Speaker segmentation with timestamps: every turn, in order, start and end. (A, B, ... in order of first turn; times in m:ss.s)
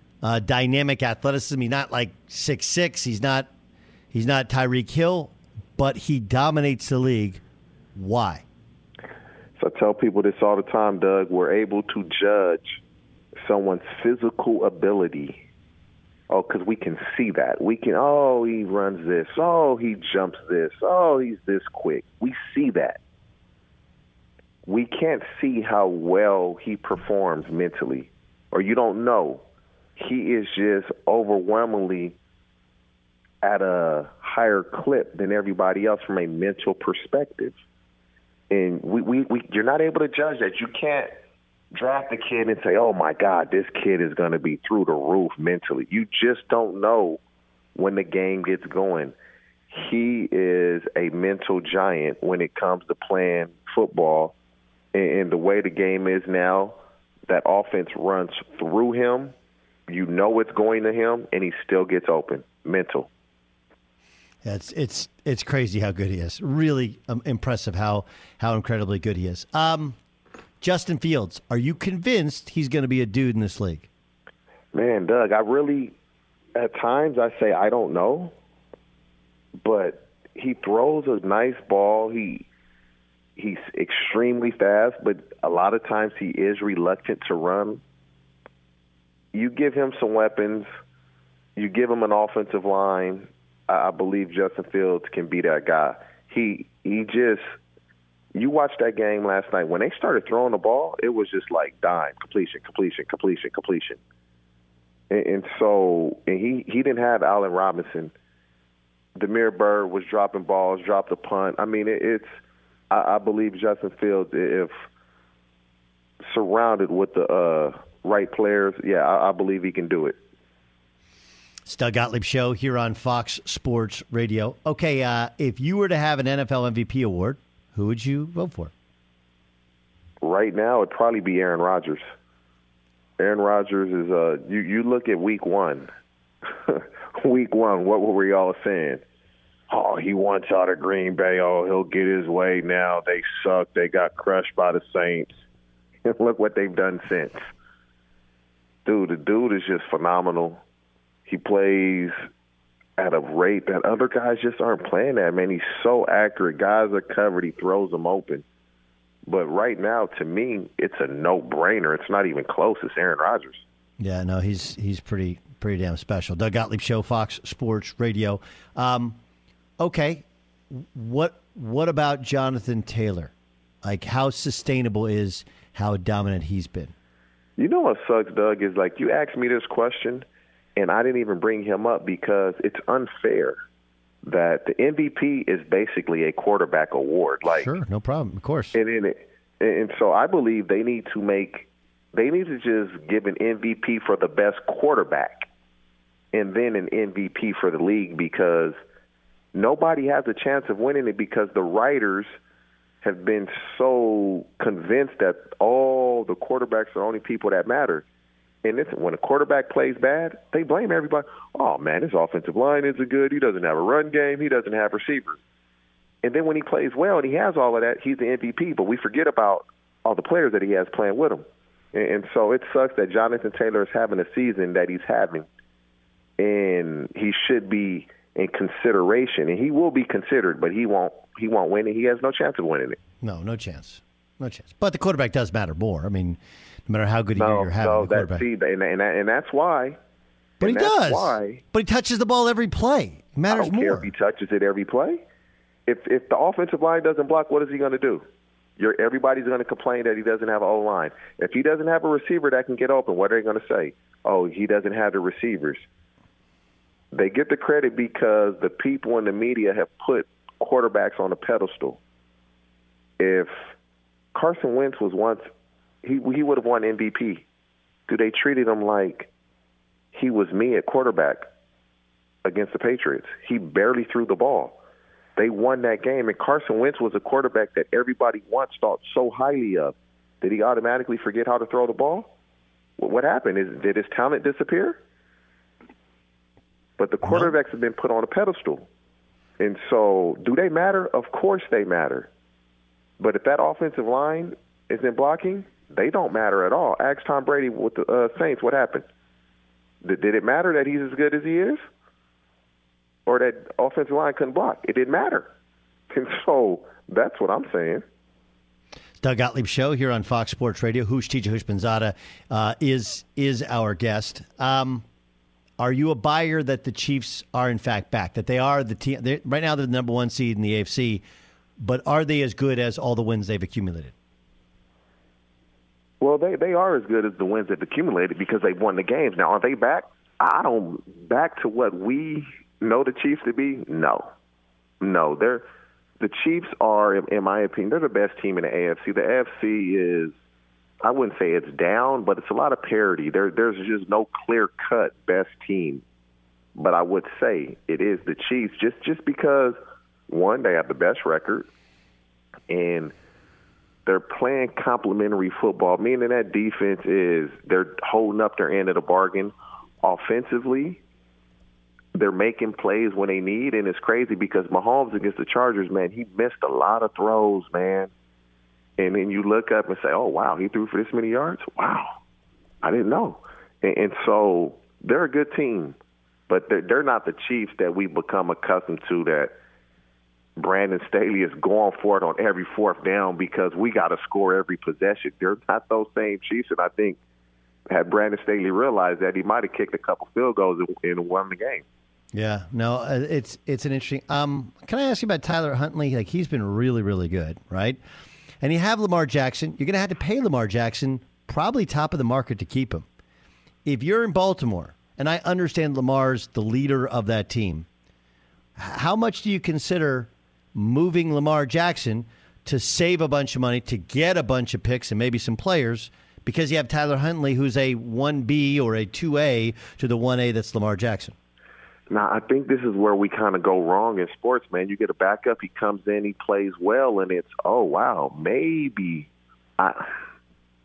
0:00.2-0:03.5 A
0:04.1-0:07.4 A
0:07.9-0:08.4 A
0:09.6-0:12.8 B
0:13.4-0:15.4 B
0:16.3-0:23.0 B
0:24.6-0:29.4 B
0:30.0-0:32.1 B
0:33.4-0:37.5 B
0:38.5-0:41.1 B
0:41.7-0:47.2 B
0:47.7-0:49.1 B
0:49.7-0:54.3 B
0:54.9-0:56.8 B
0:57.3-0:59.3 B
0:59.9-1:03.1 B
1:04.4-1:10.0 A
1:10.6-1:13.9 A
1:14.7-1:15.9 B
1:16.5-1:18.3 B
1:19.6-1:22.5 B
1:23.4-1:27.8 B
1:29.3-1:30.7 B
1:31.6-1:37.5 B
1:38.3-1:44.0 B
1:45.1-1:48.1 B
1:49.2-1:52.4 B
1:52.9-1:54.7 B
1:56.2-2:00.2 B
2:01.7-2:08.7 A
2:10.2-2:12.0 B
2:13.2-2:15.9 B
2:16.7-2:19.0 B
2:19.7-2:25.3 B
2:26.0-2:27.4 B
2:28.8-2:30.6 B
2:31.3-2:32.1 B
2:33.0-2:38.4 B
2:39.3-2:43.6 B
2:44.0-2:49.2 A
2:49.8-2:53.3 A
2:53.8-2:56.9 A
2:57.6-3:00.2 B
3:00.8-3:03.6 B
3:04.2-3:07.7 B
3:07.5-3:08.8 A
3:08.7-3:15.5 B
3:16.3-3:18.8 B
3:19.5-3:22.3 B
3:23.0-3:28.0 B
3:28.6-3:35.4 B
3:36.2-3:45.4 B
3:46.4-3:53.0 B
3:53.2-3:58.4 A
3:57.3-4:00.0 B
4:00.6-4:04.1 A
4:00.6-4:01.6 B
4:03.5-4:05.2 B
4:05.9-4:08.2 B
4:08.8-4:15.8 B
4:17.1-4:22.0 B
4:23.2-4:23.5 B
4:24.3-4:25.5 B
4:26.0-4:27.4 B
4:28.1-4:29.3 B
4:30.1-4:31.5 B
4:32.4-4:34.8 B
4:35.4-4:42.3 B
4:43.0-4:45.0 B
4:47.0-4:48.9 B
4:47.2-4:47.5 A
4:49.6-4:52.3 B
4:53.2-4:59.0 B
5:00.0-5:01.8 B
5:03.2-5:05.5 B
5:06.1-5:08.0 B
5:09.2-5:15.0 A
5:15.8-5:21.2 A
5:21.8-5:24.1 A
5:26.2-5:34.3 B
5:35.0-5:35.6 B
5:36.2-5:40.3 B
5:41.0-5:46.0 B
5:46.8-5:49.8 B
5:50.3-5:51.7 B
5:52.7-5:53.1 B
5:54.0-6:01.0 B
6:02.1-6:08.1 B
6:09.0-6:12.2 B
6:12.8-6:16.0 B
6:16.5-6:19.5 B
6:20.6-6:27.2 B
6:27.9-6:31.8 B
6:32.3-6:38.0 A
6:38.6-6:43.0 A
6:43.8-6:47.9 A
6:48.8-7:01.3 A
7:02.1-7:09.3 B
7:09.8-7:10.1 B